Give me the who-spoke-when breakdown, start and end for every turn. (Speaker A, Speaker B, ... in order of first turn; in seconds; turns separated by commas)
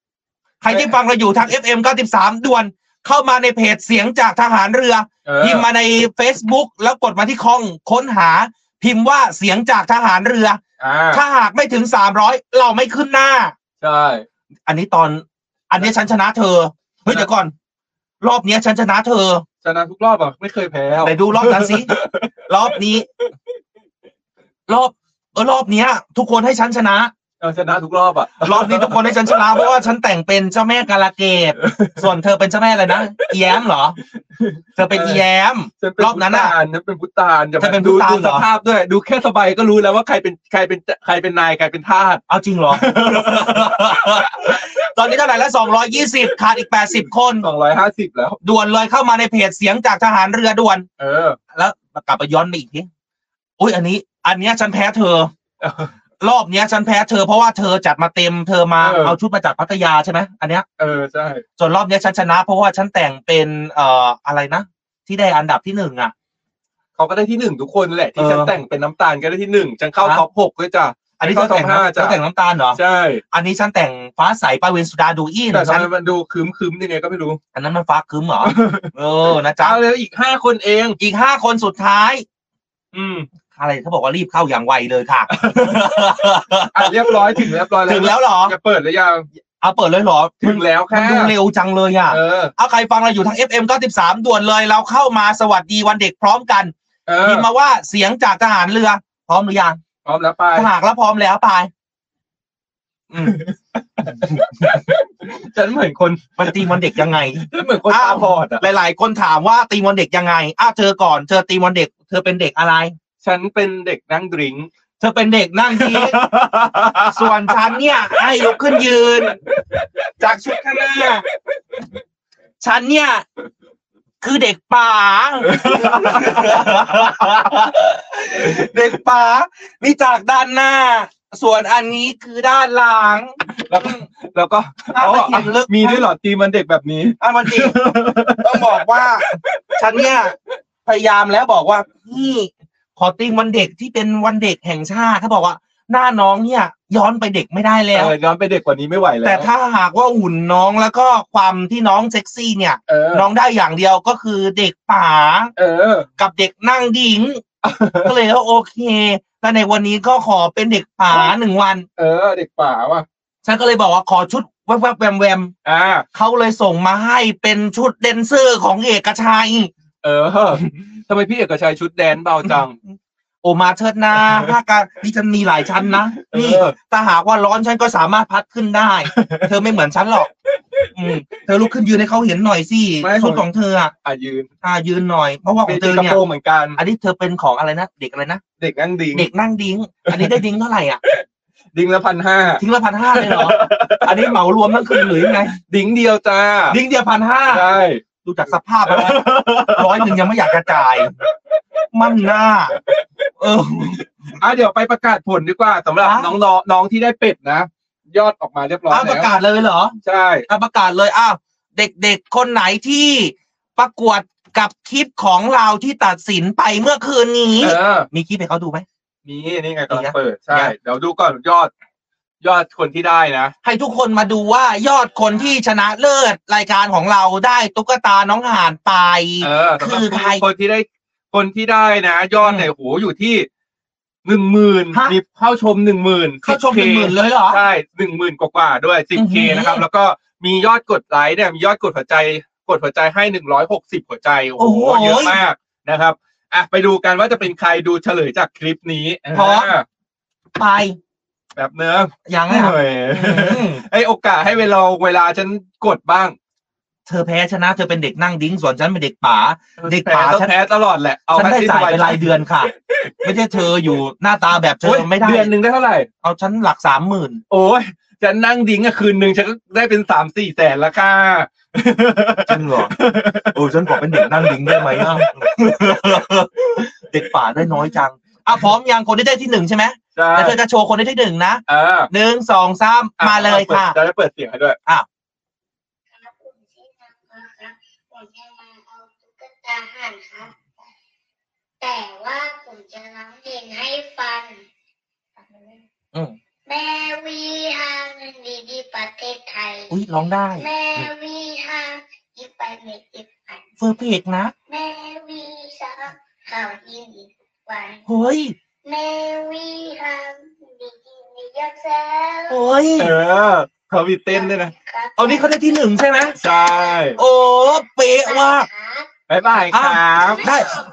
Speaker A: 0.6-10.6, Speaker B: 5.2-5.7, Speaker B: 10.8-11.2, Speaker A: 11.1-13.5, Speaker B: 13.8-14.3, Speaker A: 14.7-17.5, Speaker A: 18.2-19.4, Speaker B: 19.6-22.8, Speaker A: 21.0-21.9, Speaker A: 22.5-23.1, Speaker A: 24.7-27.1, Speaker B: 27.4-29.6, Speaker A: 28.4-34.0, Speaker B: 31.6-32.1, Speaker B: 34.4-35.2, Speaker A: 34.8-36.6, Speaker B: 35.8-44.7, Speaker A: 37.6-38.5, Speaker A: 42.3-47.5, Speaker B: 47.4-48.4, Speaker A: 48.4-50.9, Speaker B: 51.0-51.4, Speaker A: 51.5-52.9, Speaker A: 53.6-55.3, Speaker B: 55.6-55.9, Speaker A: 56.2-60.7, Speaker B: 58.8-59.2, Speaker B: 60.8-61.4, Speaker A: 61.6-66.1, Speaker B: 67.0-72.2, Speaker A: 68.2-68.5, Speaker A: 71.2-72.8, Speaker B: 72.8-73.2, Speaker A: 73.3-75.9, Speaker B: 75.5-77.4, Speaker A: 77.5-79.8, Speaker B: 78.4-78.9, Speaker B: 79.6-81.0, Speaker A: 81.0-82.2, Speaker B: 82.9-83.3, Speaker A: 83.4-88.6, Speaker B: 85.3-85.9, Speaker B: 86.7-89.3, Speaker A: 89.6-96.7, Speaker B: 90.4-91.3, Speaker B: 92.1-92.5, Speaker B: 97.1-97.5, Speaker A: 97.2-99.8, Speaker B: 100.0-100.7, Speaker A: 100.5-101.7, Speaker A: 103.1-103.4, Speaker B: 103.2-108.6, Speaker A: 104.2-104.8, Speaker A: 106.4-112.9, Speaker B: 113.2-114.7, Speaker A: 115.0-116.3, Speaker B: 115.7-118.8, Speaker A: 117.1-119.4, Speaker A: 120.2-121.2, Speaker B: 120.5-121.8, Speaker A: 122.6-123.3, Speaker A: 124.2-134.1, Speaker B: 125.4-127.1, Speaker B: 133.7-138.8, Speaker A: 134.9-136.1, Speaker A: 137.2-137.8, Speaker A: 138.4-140.3, Speaker B: 139.5-140.2, Speaker A: 140.9-148.2, Speaker B: 147.9-149.5, Speaker A: 149.2-155.5, Speaker B: 152.9-153.3, Speaker B: 155.6-156.1, Speaker A: 156.2-157.4, Speaker B: 157.6-158.2, Speaker A: 158.0-161.9, Speaker B: 162.0-163.1, Speaker A: 163.4-165.5, Speaker B: 165.7-166.1, Speaker A: 166.1-169.7, Speaker B: 170.0-172.8, Speaker A: 173.4-180.3, Speaker B: 176.2-176.8, Speaker B: 179.1-179.5, Speaker B: 180.5-180.9, Speaker A: 180.9-183.9, Speaker B: 183.0-183.4, Speaker B: 184.0-184.5, Speaker A: 184.6-186.2, Speaker B: 185.7-186.8, Speaker A: 186.8-188.4, Speaker B: 188.6-189.3, Speaker A: 189.1-191.0, Speaker B: 190.1-190.3, Speaker B: 191.7-194.4, Speaker A: 192.6-195.5, Speaker B: 194.9-196.8, Speaker A: 196.7-197.7, Speaker B: 197.5-198.0, Speaker A: 198.2-201.1, Speaker B: 198.9-201.6, Speaker A: 201.9-202.8, Speaker B: 202.1-209.4, Speaker A: 203.4-204.0, Speaker A: 206.0-206.3, Speaker A: 208.9-210.0, Speaker B: 210.0-210.5, Speaker A: 210.5-218.8, Speaker B: 217.6-218.1, Speaker B: 219.2-221.7, Speaker A: 219.9-220.7, Speaker B: 222.4-223.5, Speaker A: 223.6-230.4, Speaker B: 229.4-233.5, Speaker A: 232.4-232.7, Speaker B: 234.2-249.8, Speaker A: 234.9-235.2, Speaker A: 236.4-237.6, Speaker A: 239.2-239.8, Speaker A: 244.6-245.4, Speaker A: 249.3-249.7, Speaker A: 250.6-251.0, Speaker B: 251.6-256.4, Speaker A: 252.3-253.8, Speaker A: 257.1-260.5, Speaker B: 259.8-262.4, Speaker A: 261.3-265.5, Speaker B: 263.0-263.7, Speaker B: 264.8-266.1, Speaker A: 266.2-267.4, Speaker B: 267.5-276.2, Speaker A: 272.5-272.9, Speaker A: 273.5-284.0, Speaker B: 280.2-280.6, Speaker B: 281.7-282.1, Speaker B: 283.2-284.8, Speaker C: 286.1-290.5, Speaker C: 291.8-294.6, Speaker C: 295.4-295.9, Speaker C: 296.7-300.0, Speaker A: 299.9-301.1, Speaker C: 300.6-303.6, Speaker A: 303.8-304.5, Speaker C: 304.7-308.1, Speaker A: 308.1-308.6, Speaker C: 308.9-312.6, Speaker A: 312.5-313.1, Speaker B: 313.0-314.7, Speaker C: 314.3-317.2, Speaker A: 315.2-316.4, Speaker B: 316.4-317.2, Speaker A: 317.2-318.7, Speaker C: 318.2-319.1, Speaker B: 319.3-320.4, Speaker A: 319.7-320.8